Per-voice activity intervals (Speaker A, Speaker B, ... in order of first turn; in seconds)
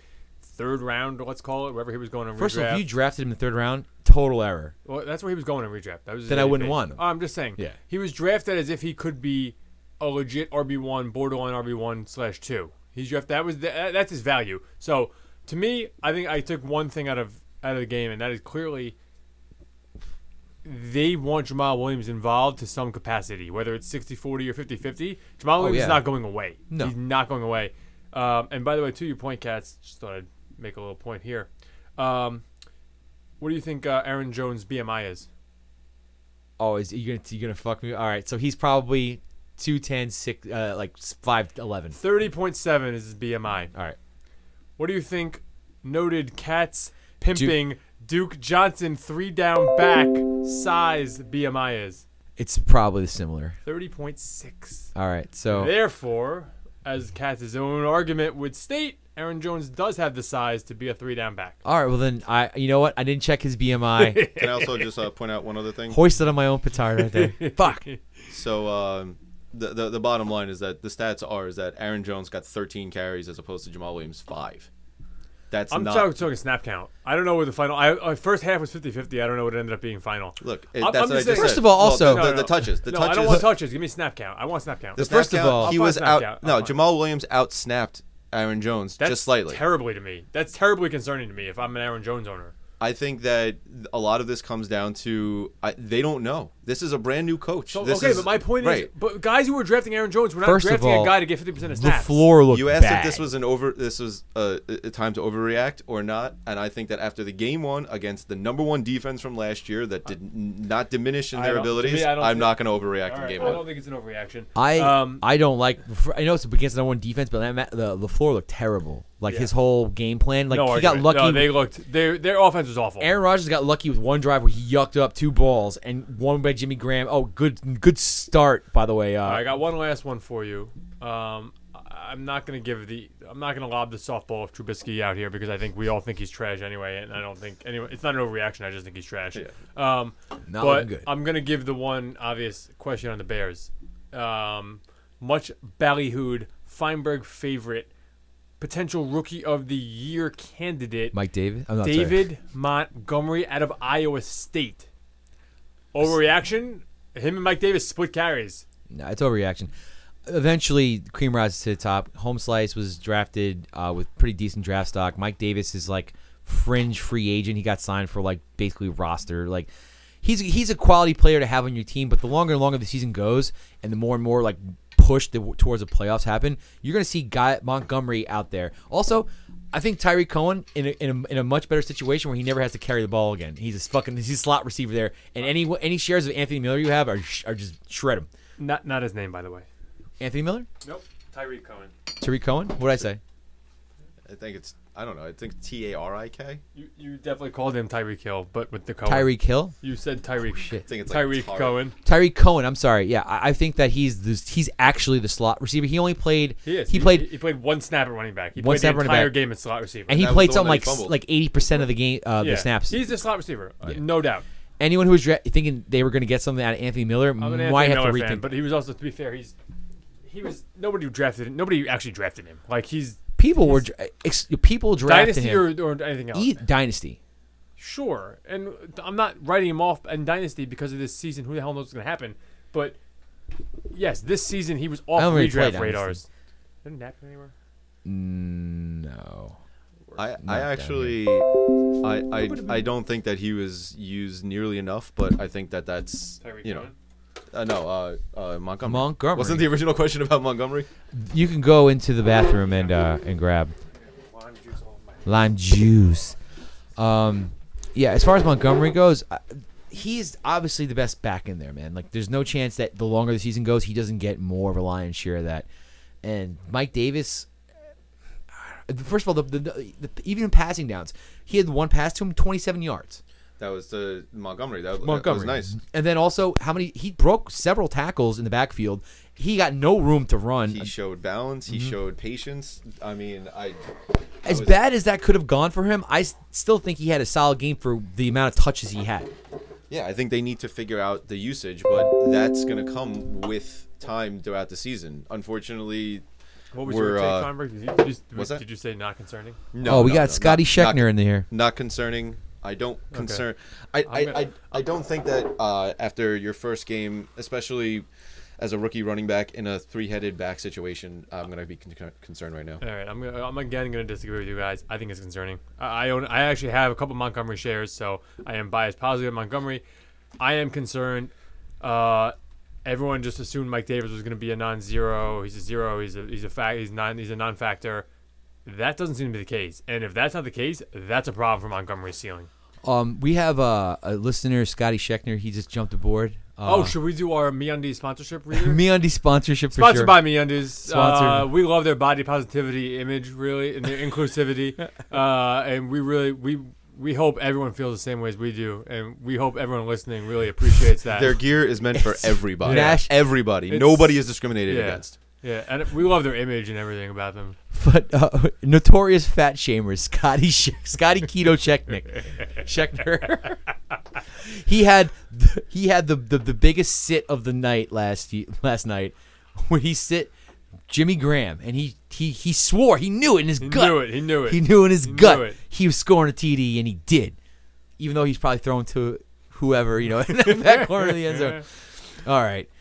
Speaker A: 0.4-2.9, 4.8-18.9, 20.6-32.4, 33.4-35.3, 41.9-43.7, 44.8-52.0, 53.6-54.9, 55.5-61.6, 63.9-64.9, 67.0-68.0, 75.7-86.8, 89.0-92.5, 97.7-102.3, 111.3-115.2, 119.3-119.5, 120.5-123.1, 129.2-147.9, 148.6-151.2, 151.8-154.9, 155.9-158.6, 188.6-189.7, 190.8-191.9, 196.7-201.9, 206.6-210.2, 212.4-214.4, 217.4-219.5, 220.2-223.8, 225.0-226.5, 227.8-232.9, 233.9-236.2, 236.8-237.5, 246.4-246.9, 254.2-255.4, 296.7-299.6, 303.1-303.4, 304.1-304.6, 312.8-319.8, 320.4-328.1, 328.6-332.5, 336.6-338.8, 339.7-351.4, 352.6-357.6, 373.6-375.6, 380.4-381.6
Speaker B: 2.4-4.7, 6.3-7.0, 25.6-26.1, 36.6-42.0, 47.3-47.6, 52.4-53.5, 54.9-55.7, 61.6-64.2, 65.9-67.8, 81.2-82.3, 85.0-85.7, 100.4-103.2, 114.5-121.6, 123.0-129.5, 140.5-141.1, 151.1-152.3, 158.9-159.7, 160.2-169.7, 170.2-188.3, 190.2-190.7, 192.2-193.2, 199.0-199.7, 200.6-200.8, 202.0-207.3, 208.6-209.3, 210.1-213.0, 214.8-218.5, 223.4-225.8, 226.3-227.2, 235.2-236.2, 238.0-239.6, 240.4-241.2, 248.8-249.8, 251.1-253.7, 255.2-256.4, 257.0-265.6, 266.2-267.5, 268.5-273.2, 275.0-280.9, 284.4-289.3, 299.8-301.4, 332.8-336.9, 338.5-340.2, 340.8-341.5, 351.9-353.1, 357.7-363.6, 364.3-370.3, 370.9-377.4, 378.0-382.7
Speaker C: 64.3-66.0, 68.3-74.7, 75.5-76.2, 80.4-83.5, 85.0-89.6, 92.8-98.9, 102.5-113.7, 194.3-196.6, 200.8-201.8, 210.1-211.2, 240.1-241.5, 242.0-246.9, 247.5-250.9, 273.6-275.8, 280.7-283.8, 284.4-284.8, 289.9-296.2, 296.8-297.5, 298.3-298.6, 299.7-308.1, 308.6-312.8, 351.1-355.1